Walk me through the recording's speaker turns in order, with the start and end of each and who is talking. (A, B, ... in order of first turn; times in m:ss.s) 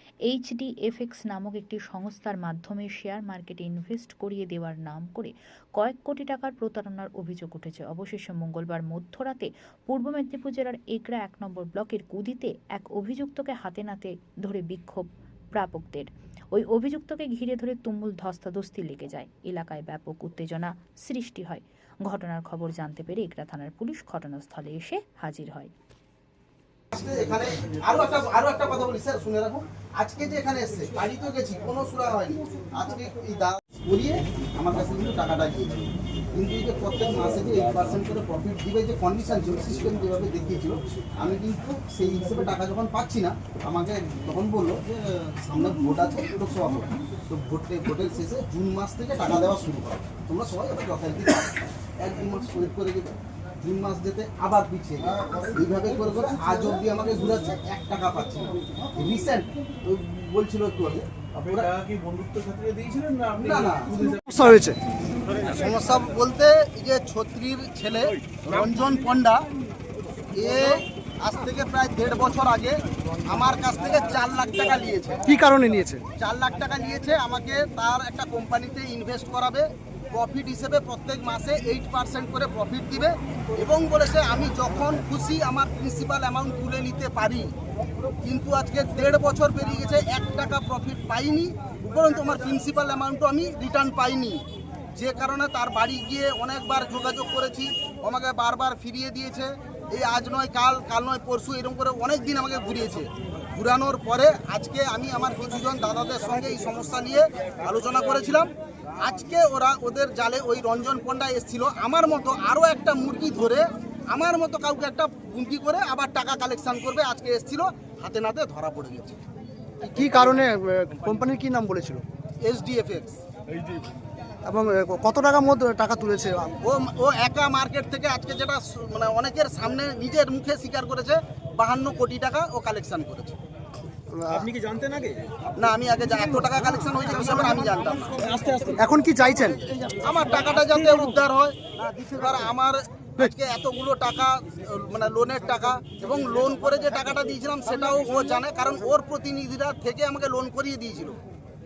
0:00.3-0:25.7 A
0:26.9-0:35.8 B
0:36.3-1:01.7 B
1:01.8-1:03.3 C
1:03.4-1:03.9 B
1:04.2-1:04.8 D
1:05.5-1:09.4 B
1:10.4-1:15.2 B
1:15.3-1:16.0 D
1:16.2-1:27.5 B
1:28.2-1:34.4 B
1:35.0-1:59.2 B
1:59.9-2:02.0 D
2:02.4-2:03.2 B
2:04.5-2:06.5 D
2:06.6-2:13.4 B
2:14.1-2:14.5 D
2:14.4-2:15.3 C
2:15.6-2:18.3 B
2:18.2-2:18.8 C
2:18.8-2:19.6 D
2:20.0-2:31.2 B